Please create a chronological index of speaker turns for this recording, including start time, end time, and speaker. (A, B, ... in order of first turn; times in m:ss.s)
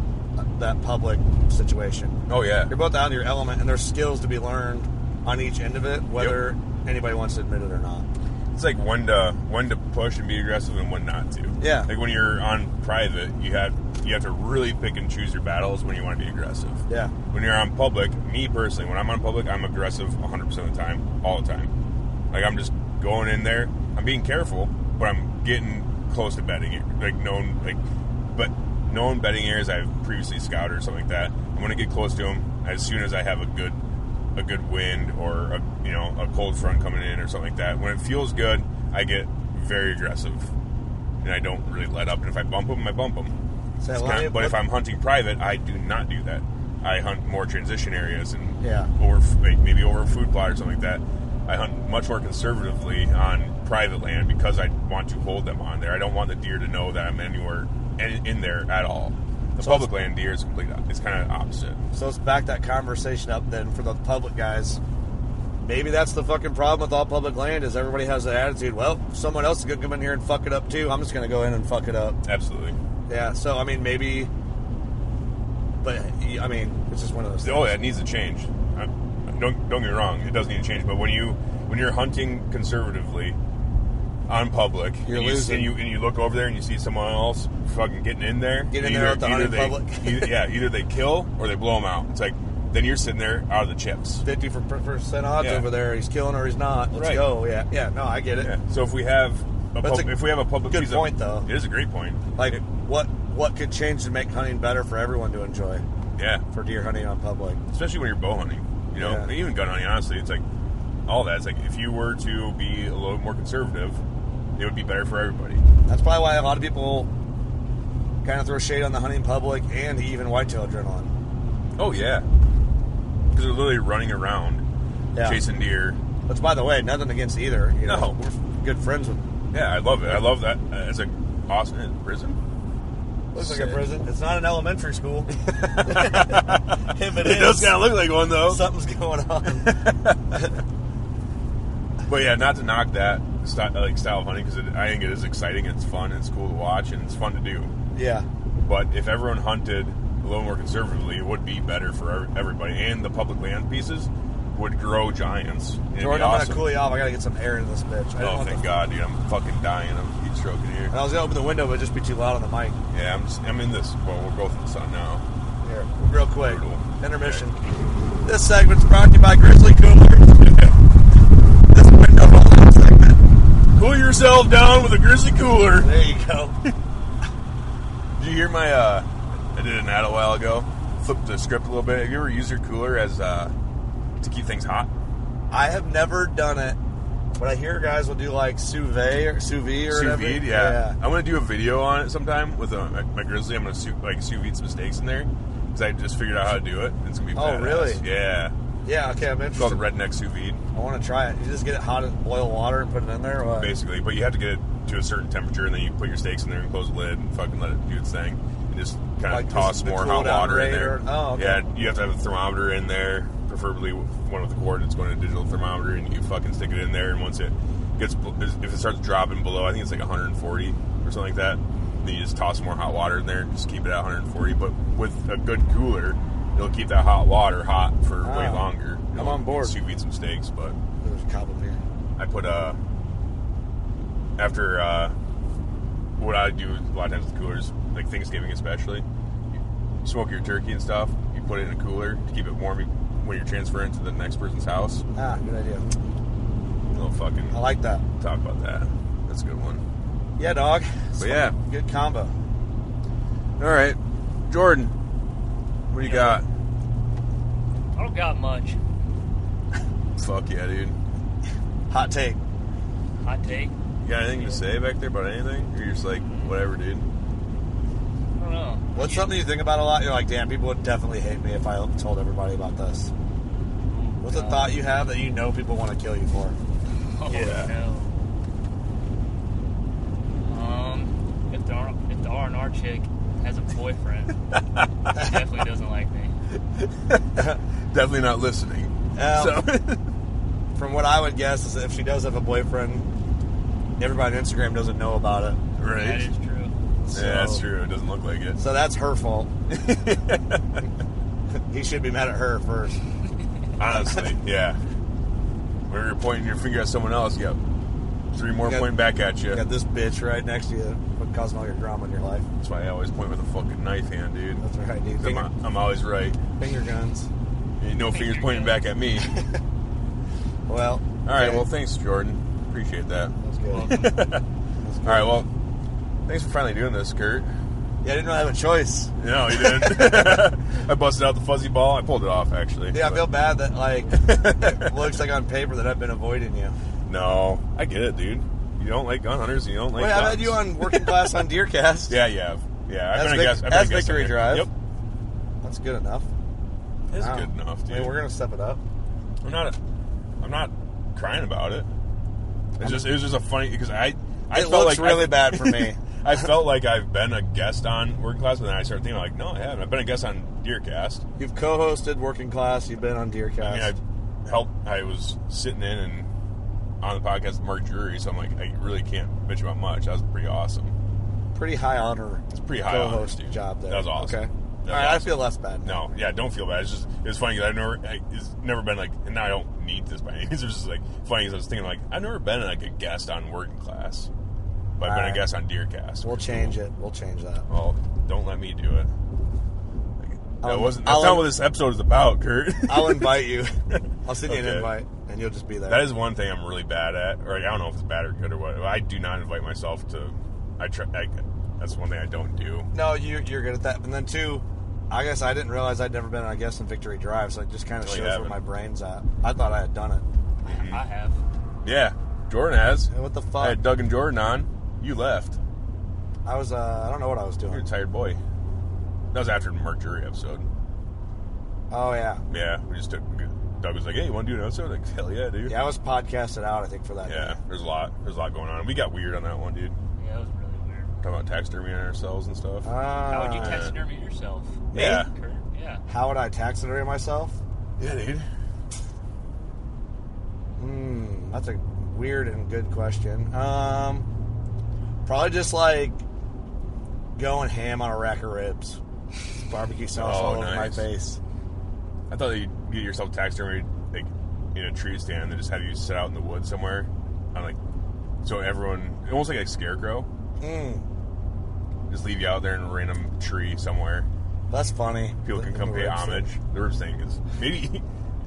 0:00.4-0:08.0 A
0:02.3-0:02.7 B
0:08.5-0:21.7 B
0:11.6-0:11.9 A
0:16.9-0:17.1 A
0:22.3-0:33.8 B
0:34.4-0:40.5 B
0:41.2-0:43.4 B
0:43.8-0:44.6 A
0:43.9-1:01.8 B
0:48.6-0:48.9 A
0:59.6-0:59.9 A
1:01.9-1:04.8 A
1:05.6-1:12.2 A
1:12.2-1:12.8 B
1:13.1-1:14.3 A
1:15.8-1:17.8 A
1:17.4-1:23.4 B
1:24.3-1:34.2 B
1:25.0-1:25.7 A
1:28.7-1:30.3 A
1:34.2-1:38.5 A
1:35.4-1:35.7 B
1:36.9-1:37.3 B
1:38.4-1:42.6 B
1:39.8-1:40.2 A
1:40.7-1:41.5 A
1:42.4-1:45.8 A
1:46.2-1:46.4 B
1:46.5-1:47.6 A
1:47.7-1:50.4 B
1:49.0-1:49.3 A
1:51.1-1:54.0 B
1:54.6-1:55.6 B
1:55.9-1:57.1 A
1:58.2-2:01.1 A
2:01.8-2:02.2 B
2:03.3-2:04.6 B
2:05.1-2:05.4 A
2:05.2-2:06.0 B
2:06.3-2:09.2 A
2:07.8-2:08.2 B
2:09.5-2:12.4 B
2:13.3-2:19.8 A
2:13.4-2:13.8 B
2:15.5-2:18.6 B
2:19.6-2:20.4 B
2:22.1-2:27.7 B
2:27.9-2:28.2 A
2:28.6-2:36.7 B
2:36.0-2:38.6 A
2:38.2-2:40.9 B
2:40.9-2:42.8 A
2:42.9-2:45.2 B
2:45.6-2:47.6 A
2:46.4-2:47.4 B
2:48.2-2:50.7 A
2:51.7-2:53.2 A
2:53.7-2:55.9 B
2:55.8-2:56.6 A
2:58.2-3:03.5 B
3:04.2-3:04.9 B
3:05.5-3:06.8 A
3:07.4-3:11.0 A
3:09.9-3:18.5 B
3:17.4-3:18.0 A
3:18.8-3:19.8 A
3:19.6-3:20.6 B
3:20.7-3:23.7 A
3:23.6-3:50.8 B
3:29.3-3:31.6 A
3:48.2-3:49.8 A
3:51.0-3:51.8 A
3:52.2-3:52.8 B
3:54.4-3:55.1 B
3:56.2-3:59.0 B
4:00.0-4:05.0 B
4:05.2-4:05.9 A
4:06.9-4:07.5 B
4:07.5-4:08.0 A
4:08.2-4:09.8 B
4:10.4-4:12.3 A
4:11.2-4:11.5 B
4:13.6-4:14.0 B
4:14.5-4:14.9 B
4:15.9-4:16.4 B
4:16.0-4:16.4 C
4:17.9-4:18.8 C
4:20.2-4:21.0 B
4:21.9-4:22.4 A
4:23.2-4:23.7 C
4:24.0-4:27.0 B
4:24.3-4:24.6 C
4:26.2-4:26.6 C
4:28.4-4:29.5 C
4:28.9-4:33.1 A
4:33.9-4:34.8 C
4:34.2-4:36.6 A
4:37.0-4:38.1 C
4:37.3-4:37.7 B
4:40.4-4:44.4 C
4:45.1-4:46.3 C
4:46.8-4:50.0 B
4:49.2-4:49.7 A
4:50.8-4:53.0 A
4:54.0-4:55.6 A
4:55.8-4:56.3 B
4:55.9-4:56.7 C
4:57.1-4:57.6 A
4:57.1-4:58.6 B
4:58.6-4:59.5 A
4:59.7-5:00.8 B
5:01.7-5:03.0 A
5:03.8-5:04.8 B
5:05.9-5:07.6 B
5:08.3-5:09.6 B
5:08.6-5:08.9 A
5:09.5-5:12.4 A
5:12.6-5:14.6 B
5:14.6-5:15.5 A
5:15.2-5:16.4 B
5:16.6-5:17.3 A
5:17.8-5:19.3 B
5:18.0-5:18.9 C
5:20.7-5:21.6 A
5:21.2-5:24.4 B
5:23.4-5:24.1 A
5:23.7-5:24.3 C
5:24.8-5:25.4 A
5:25.0-5:25.5 B
5:26.3-5:27.5 B
5:28.0-5:30.4 A
5:29.2-5:33.2 B
5:32.9-5:36.8 A
5:34.1-5:35.2 B
5:37.1-5:41.4 B
5:40.0-5:42.2 A
5:42.1-5:44.7 B
5:43.1-5:44.7 A
5:45.6-5:46.3 A
5:47.1-5:48.2 B
5:47.2-5:48.8 A
5:49.4-5:49.8 B
5:50.4-5:51.9 B
5:52.8-5:53.0 A
5:52.8-6:01.2 B
5:54.5-5:56.0 A
6:01.4-6:03.9 A
6:03.6-6:06.3 B
6:07.0-6:11.0 B
6:11.5-6:16.0 A
6:12.5-6:24.3 B
6:25.0-6:26.8 B
6:25.0-6:25.4 A
6:26.2-6:27.6 A
6:27.7-6:29.1 B
6:30.2-6:34.9 B
6:30.6-6:31.5 A
6:32.9-6:36.0 A
6:35.9-6:42.9 B
6:42.9-6:50.2 A
6:48.0-6:48.6 B
6:50.6-6:51.4 C
6:50.6-6:51.0 B
6:51.8-6:55.6 B
6:53.1-6:53.8 A
6:56.4-6:57.8 A
6:57.7-6:58.4 B
6:59.3-7:00.7 B
7:01.9-7:02.4 A
7:02.5-7:05.7 B
7:05.6-7:07.6 A
7:07.2-7:10.0 B
7:10.2-7:11.2 C
7:11.2-7:12.9 B
7:12.8-7:13.8 A
7:13.3-7:16.0 C
7:13.6-7:14.0 B
7:14.9-7:15.3 A
7:14.9-7:15.3 B
7:16.1-7:17.6 A
7:18.0-7:18.4 B
7:20.8-7:24.3 A
7:25.2-7:26.2 A
7:27.4-7:29.0 A
7:29.6-7:31.4 A
7:30.1-7:31.0 B
7:32.3-7:37.8 B
7:38.4-7:40.3 B
7:40.6-7:41.0 A
7:42.1-7:44.3 B
7:44.7-7:46.5 A
7:45.4-7:48.0 B